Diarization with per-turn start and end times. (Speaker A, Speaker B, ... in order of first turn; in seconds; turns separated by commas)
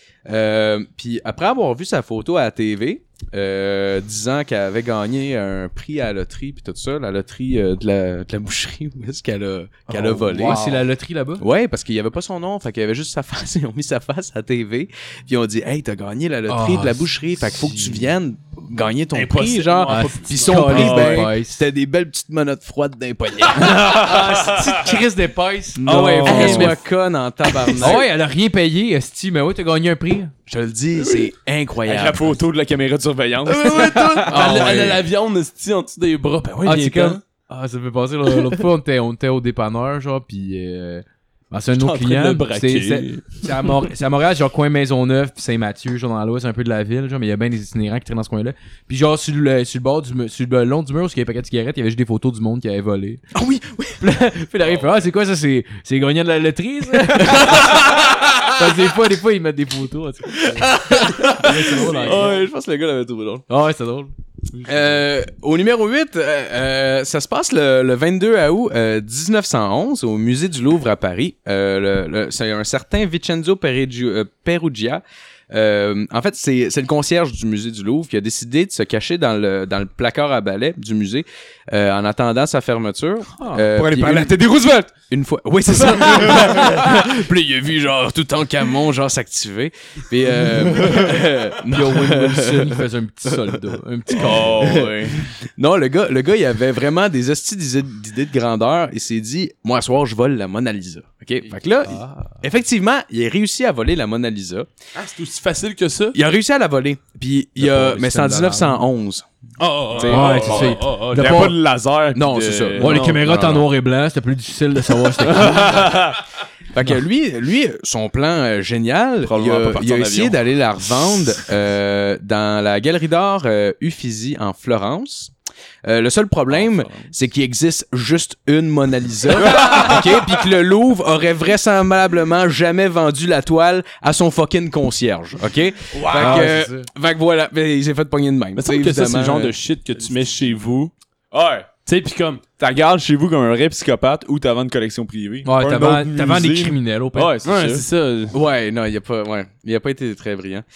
Speaker A: 0.2-10.6, Speaker B: 9.9-11.4, Speaker C: 10.3-10.8, Speaker A: 11.4-24.1, Speaker B: 16.5-18.1, Speaker D: 19.1-21.2, Speaker B: 19.9-21.6, Speaker B: 23.5-26.8, Speaker C: 24.1-24.7, Speaker C: 25.8-26.8, Speaker A: 25.8-28.1, Speaker D: 26.2-26.8, Speaker B: 27.8-30.3, Speaker A: 30.5-32.4, Speaker D: 31.0-31.3, Speaker C: 31.8-34.8, Speaker D: 33.5-37.2, Speaker A: 34.2-35.0, Speaker B: 34.3-34.8, Speaker B: 36.6-53.2, Speaker D: 41.7-43.2, Speaker A: 53.3-54.0, Speaker B: 54.0-62.4, Speaker A: 57.1-58.5, Speaker A: 60.5-63.4, Speaker B: 63.5-64.1, Speaker A: 64.6-84.5, Speaker C: 64.6-65.0, Speaker B: 83.4-83.7, Speaker C: 83.7-84.9, Speaker A: 85.1-92.8, Speaker B: 91.7-94.7, Speaker C: 94.1-95.2, Speaker A: 94.1-104.7, Speaker B: 101.8-102.4, Speaker D: 104.9-106.2, Speaker A: 106.1-109.2, Speaker B: 107.6-108.8, Speaker D: 109.6-111.5, Speaker C: 109.9-113.0, Speaker B: 110.0-111.5, Speaker A: 112.1-113.7, Speaker B: 112.8-116.0, Speaker D: 112.8-113.2, Speaker C: 115.3-116.2, Speaker A: 116.7-125.3, Speaker C: 119.2-120.4, Speaker A: 125.8-139.5, Speaker C: 126.5-127.1, Speaker C: 129.4-130.0, Speaker C: 135.9-136.6, Speaker B: 136.1-136.9, Speaker D: 138.6-140.9, Speaker C: 141.3-141.7, Speaker D: 141.8-142.4, Speaker C: 142.6-147.8, Speaker B: 145.4-147.4, Speaker D: 147.4-148.3, Speaker A: 148.3-150.6